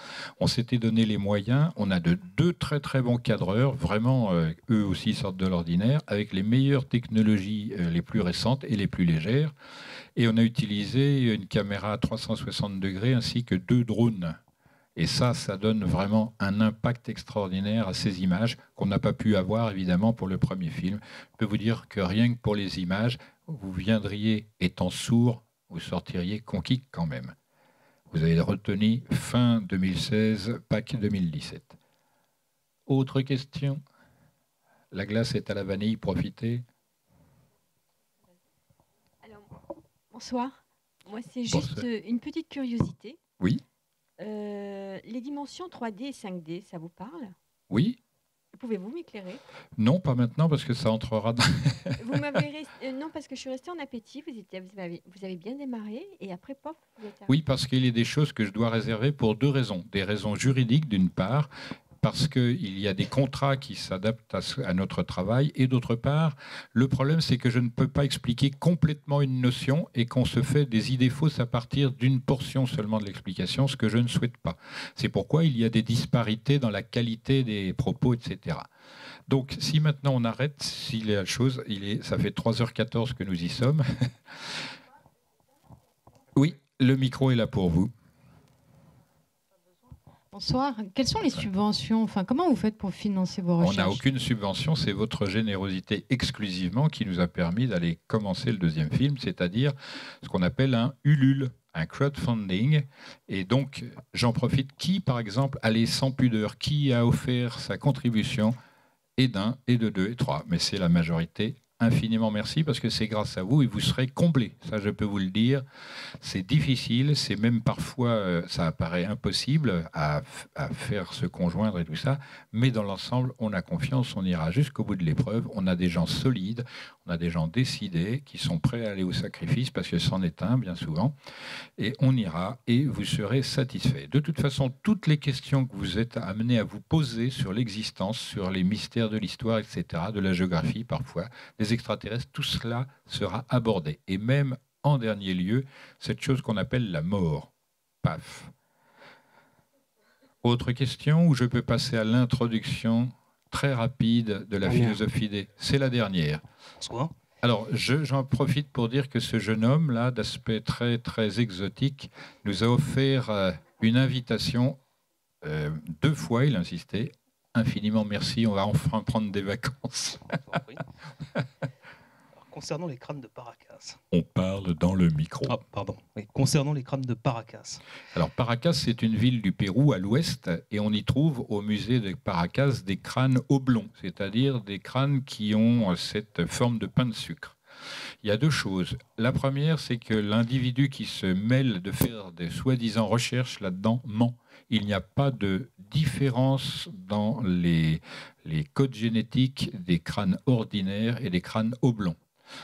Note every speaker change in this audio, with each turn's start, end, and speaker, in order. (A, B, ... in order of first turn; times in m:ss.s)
0:00.4-0:09.5 A
0:10.2-0:14.4 A
0:15.0-0:27.3 A
0:28.1-0:31.8 A
0:32.9-0:33.8 A
0:34.9-0:36.6 A
0:39.2-0:39.5 B
0:40.1-0:43.2 B
0:41.5-0:41.8 A
0:44.2-0:47.4 B
0:47.7-0:48.0 A
0:48.5-0:49.4 B
0:49.8-0:52.2 A
0:52.0-0:57.3 B
0:57.3-1:01.5 A
1:02.0-1:18.7 A
1:19.3-1:24.1 A
1:26.4-1:27.9 A
1:30.3-1:34.0 C
1:33.6-1:48.5 A
1:49.2-1:55.6 A
1:56.2-2:11.1 A
2:11.8-2:27.5 A
2:28.0-2:28.5 A
2:30.4-2:36.4 A
2:36.8-2:37.1 D
2:37.4-2:44.8 A
2:45.4-2:50.4 A
2:50.4-2:50.8 D
2:52.3-2:54.0 D
2:54.1-2:55.6 A
2:55.4-2:57.8 D
2:58.1-3:07.6 A
3:08.2-3:22.2 A